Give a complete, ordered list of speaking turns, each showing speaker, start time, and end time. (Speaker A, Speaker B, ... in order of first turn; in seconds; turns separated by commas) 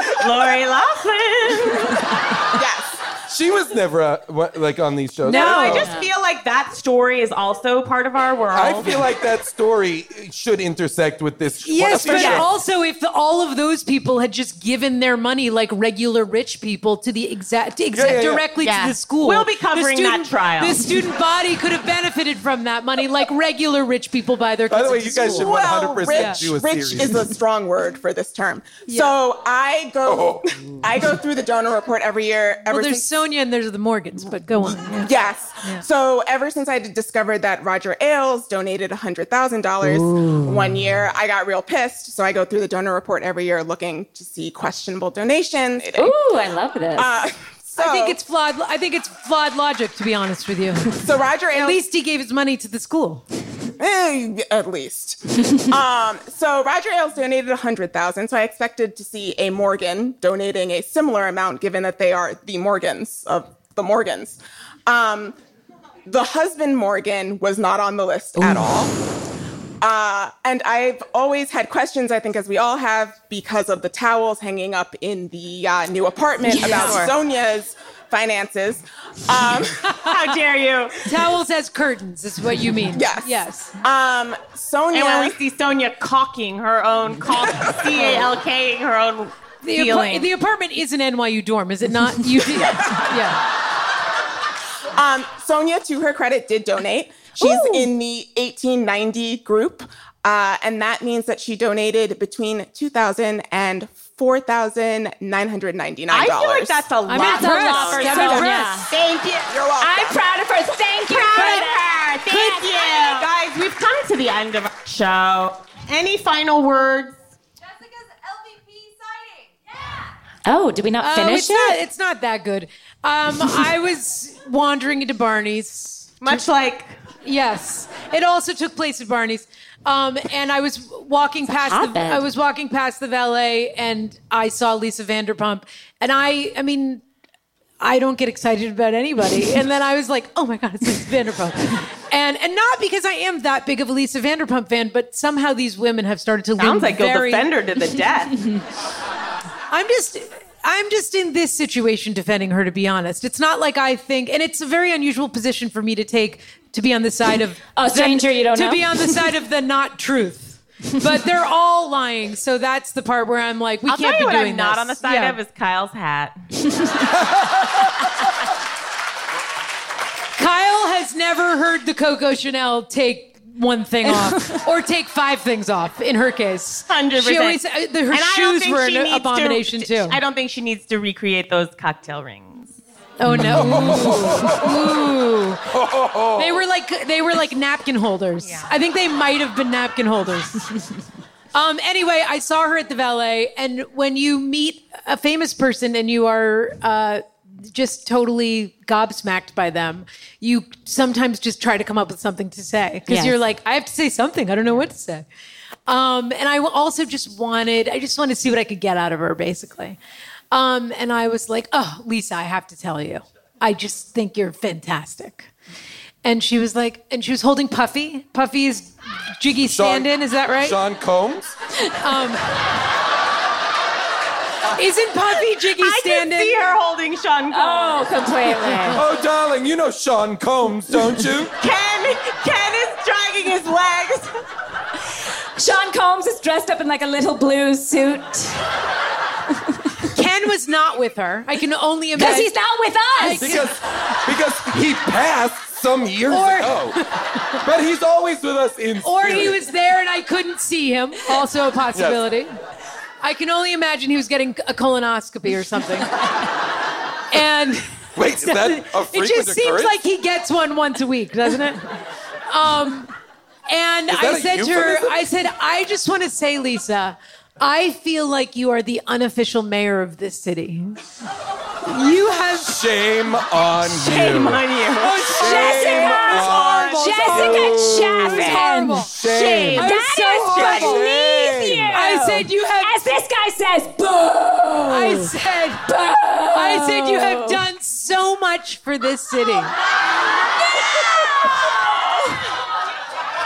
Speaker A: 0.2-2.0, Speaker B: 2.5-3.0, Speaker C: 3.3-5.9, Speaker A: 5.3-9.0, Speaker D: 5.3-5.9, Speaker E: 5.7-6.1, Speaker C: 8.5-12.5, Speaker D: 11.7-25.5, Speaker E: 12.1-12.5, Speaker C: 17.9-18.5, Speaker A: 19.2-20.9, Speaker C: 24.7-27.3, Speaker B: 25.3-33.1, Speaker D: 26.1-26.4, Speaker D: 28.9-29.1, Speaker C: 30.0-30.6, Speaker D: 32.7-35.0, Speaker B: 34.9-46.2, Speaker E: 39.9-40.5, Speaker E: 46.0-47.1, Speaker B: 47.0-48.2, Speaker D: 47.8-53.2, Speaker B: 51.0-51.8, Speaker B: 53.8-65.4, Speaker B: 66.1-68.9, Speaker C: 68.4-68.9, Speaker B: 69.8-80.0, Speaker A: 76.5-77.1, Speaker D: 76.6-76.9, Speaker A: 80.0-81.0, Speaker D: 81.0-83.7, Speaker B: 82.9-85.4, Speaker A: 84.9-90.3, Speaker B: 88.0-88.3, Speaker D: 89.6-93.4, Speaker B: 95.0-106.9, Speaker D: 97.4-97.9, Speaker A: 106.1-109.5, Speaker D: 107.1-108.9, Speaker E: 107.1-108.9, Speaker B: 109.5-110.2, Speaker E: 109.8-112.9, Speaker A: 111.1-117.2, Speaker D: 111.3-111.7, Speaker D: 112.2-112.7, Speaker E: 120.5-121.8, Speaker D: 121.0-126.4, Speaker A: 126.2-126.9, Speaker D: 127.2-137.0, Speaker E: 131.5-132.3, Speaker D: 137.8-147.5, Speaker A: 146.6-148.4, Speaker D: 149.7-165.4, Speaker E: 157.8-159.3, Speaker A: 163.9-166.3, Speaker D: 170.4-180.2, Speaker A: 176.9-182.8, Speaker D: 183.2-185.6, Speaker C: 183.3-185.0, Speaker C: 185.7-186.7, Speaker D: 186.4-190.9, Speaker A: 188.4-188.7, Speaker D: 191.5-205.3, Speaker E: 203.1-203.4, Speaker D: 205.9-210.0, Speaker D: 210.5-215.5, Speaker D: 216.2-220.8, Speaker C: 219.7-221.6, Speaker D: 222.0-222.4, Speaker D: 224.8-226.8, Speaker A: 225.8-228.1, Speaker E: 227.5-229.0, Speaker C: 228.9-231.5, Speaker A: 231.6-234.3, Speaker E: 235.6-238.6, Speaker D: 240.1-242.5, Speaker E: 242.2-243.6, Speaker D: 243.2-243.7, Speaker C: 243.2-247.0, Speaker D: 246.3-247.1, Speaker C: 247.6-249.6, Speaker D: 249.0-252.5, Speaker C: 251.9-252.2, Speaker D: 253.2-256.1, Speaker D: 257.3-261.9, Speaker C: 258.2-260.0, Speaker D: 262.5-263.1, Speaker D: 263.7-271.0, Speaker C: 264.1-265.3, Speaker D: 271.9-272.8, Speaker C: 272.6-279.9, Speaker E: 274.0-279.1, Speaker A: 274.2-275.8, Speaker D: 275.2-279.1, Speaker A: 279.2-279.9, Speaker D: 279.6-281.1, Speaker E: 279.8-285.3, Speaker A: 280.5-280.8, Speaker C: 280.6-282.0, Speaker D: 281.9-283.2, Speaker D: 284.8-285.9, Speaker E: 285.9-287.6, Speaker D: 286.5-289.8, Speaker E: 290.6-292.4